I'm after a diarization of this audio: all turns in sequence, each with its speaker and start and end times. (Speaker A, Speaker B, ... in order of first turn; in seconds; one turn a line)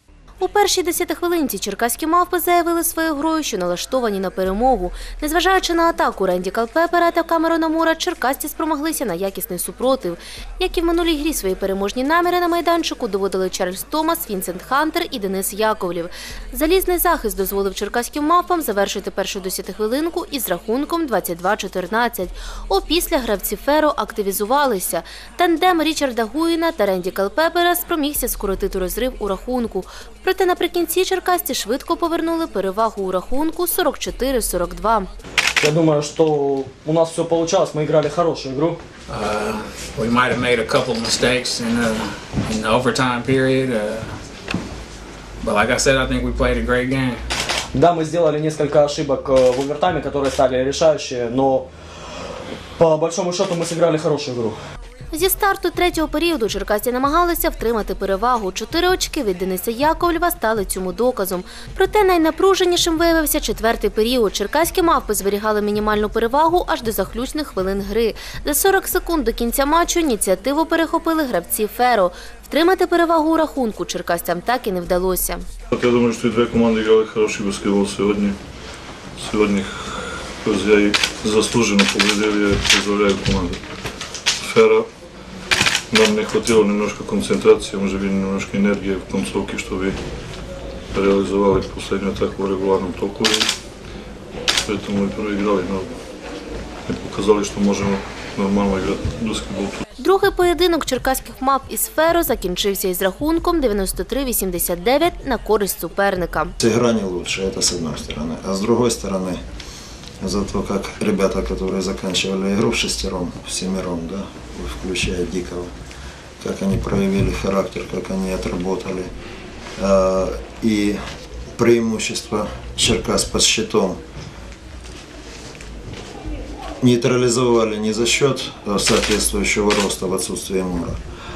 Speaker A: 0.4-35.1
Speaker B: 35.6-38.8
Speaker C: 39.1-44.2
Speaker C: 45.4-47.2
Speaker B: 47.7-51.7
Speaker B: 52.8-54.6
Speaker A: 55.1-75.4
Speaker D: 75.7-78.3
Speaker D: 79.2-83.6
Speaker D: 84.4-84.8
Speaker D: 85.9-90.0
Speaker D: 90.9-93.5
Speaker D: 94.7-95.9
Speaker D: 96.9-99.8
Speaker A: 100.0-106.5
Speaker E: 106.6-109.4
Speaker E: 110.2-115.7
Speaker E: 116.4-119.1
Speaker E: 119.8-121.0
Speaker E: 121.5-124.0
Speaker E: 126.8-131.0